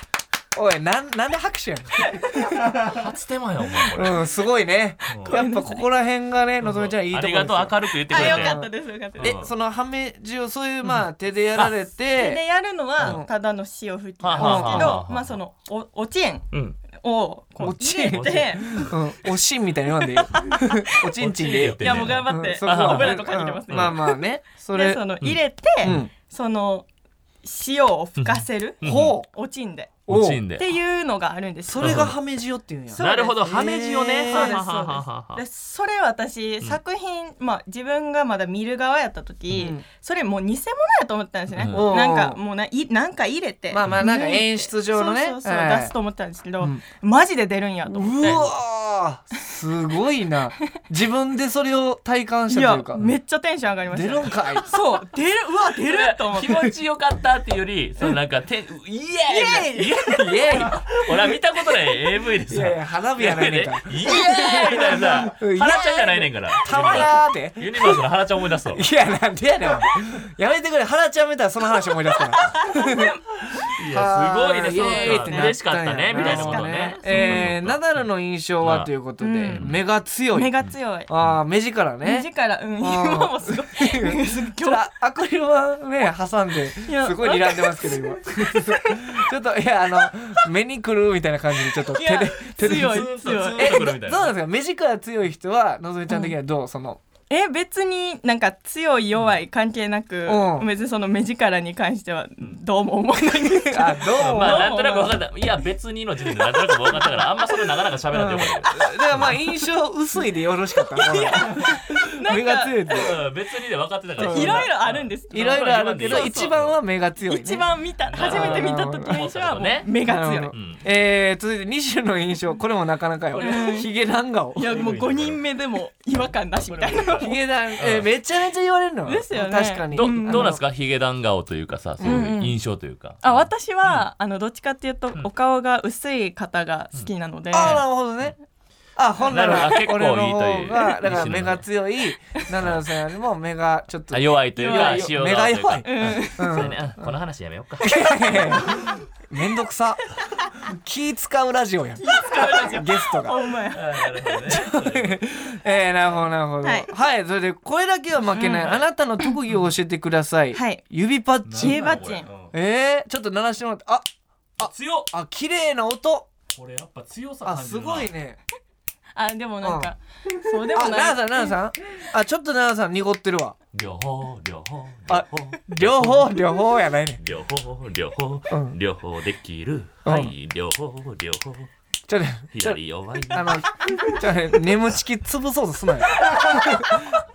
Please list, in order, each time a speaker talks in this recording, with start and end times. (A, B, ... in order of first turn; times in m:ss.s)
0:00.5-0:02.8 A
0:02.7-0:04.2 B
0:03.9-0:12.4 A
0:05.1-0:05.4 B
0:05.2-0:05.9 C
0:06.6-0:08.6 B
0:08.1-0:09.4 C
0:09.2-0:09.5 B
0:12.2-0:18.8 C
0:13.0-0:13.3 A
0:14.2-0:15.4 B
0:14.4-0:15.0 A
0:16.5-0:16.8 B
0:17.6-0:19.0 B
0:17.6-0:25.0 A
0:20.2-0:20.8 C
0:21.2-0:24.0 B
0:21.8-0:24.2 C
0:24.7-0:26.9 C
0:25.2-0:26.0 B
0:25.8-0:26.1 A
0:27.4-0:29.9 C
0:28.2-0:29.2 B
0:28.8-0:29.3 A
0:30.1-0:30.7 B
0:30.1-0:30.4 A
0:30.6-0:32.1 C
0:31.6-0:34.6 A
0:31.8-0:32.2 B
0:32.9-0:33.4 C
0:33.0-0:35.4 B
0:34.3-0:48.3 C
0:39.5-0:39.8 A
0:41.5-0:41.8 B
0:41.7-0:42.4 A
0:43.7-0:45.9 A
0:47.9-0:53.1 A
0:48.2-0:48.5 B
0:52.5-0:56.7 C
0:53.9-0:54.7 A
0:55.8-1:08.9 B
0:59.3-0:59.9 C
1:00.1-1:01.4 A
1:02.5-1:08.0 A
1:04.1-1:05.1 C
1:08.7-1:13.2 A
1:12.4-1:13.2 C
1:13.7-1:18.0 B
1:13.9-1:20.5 A
1:14.7-1:15.6 C
1:16.1-1:17.5 C
1:18.6-1:18.9 B
1:19.2-1:19.6 C
1:19.5-1:19.8 B
1:20.3-1:21.1 C
1:20.6-1:21.4 B
1:21.1-1:22.3 A
1:22.0-1:24.8 C
1:22.8-1:37.0 A
1:26.9-1:28.0 C
1:28.5-1:29.2 C
1:31.9-1:33.7 C
1:32.6-1:34.3 B
1:37.3-1:45.2 C
1:40.3-1:40.7 A
1:43.7-1:44.7 A
1:44.1-1:49.4 B
1:48.1-1:53.1 A
1:50.9-1:53.0 C
1:52.9-1:56.8 B
1:54.2-1:54.7 A
1:54.2-1:56.5 C
1:55.3-1:57.6 A
1:57.3-2:00.5 C
1:58.1-1:59.9 B
1:58.2-1:59.2 A
2:00.0-2:04.9 A
2:00.5-2:00.8 B
2:03.4-2:03.7 B
2:03.4-2:03.9 C
2:04.6-2:07.3 C
2:04.6-2:05.4 B
2:06.6-2:08.1 B
2:07.2-2:10.6 A
2:09.1-2:10.5 C
2:09.9-2:14.1 B
2:12.0-2:12.4 A
2:12.0-2:12.5 C
2:13.2-2:17.8 C
2:17.5-2:18.4 A
2:17.6-2:18.3 B
2:19.0-2:27.2 A
2:19.2-2:19.7 C
2:19.3-2:21.7 B
2:22.6-2:22.8 B
2:24.1-2:29.0 B
2:24.6-2:25.2 C
2:25.8-2:26.7 C
2:27.8-2:33.4 A
2:32.0-2:34.3 C
2:33.7-2:35.3 B
2:34.5-2:44.1 A
2:36.6-2:36.9 C
2:38.3-2:38.8 C
2:40.5-2:40.8 C
2:41.5-2:42.5 B
2:41.6-2:42.3 C
2:44.6-2:46.3 A
2:44.6-2:45.1 B
2:46.5-2:48.1 B
2:47.4-2:48.4 A
2:49.2-2:51.5 C
2:49.6-2:49.9 A
2:50.7-2:53.6 A
2:53.7-2:56.5 B
2:55.1-2:57.2 A
2:57.2-3:01.7 B
2:58.5-2:58.8 A
3:00.0-3:00.3 A
3:02.1-3:02.8 A
3:02.5-3:03.6 B
3:03.3-3:07.0 A
3:06.3-3:06.6 C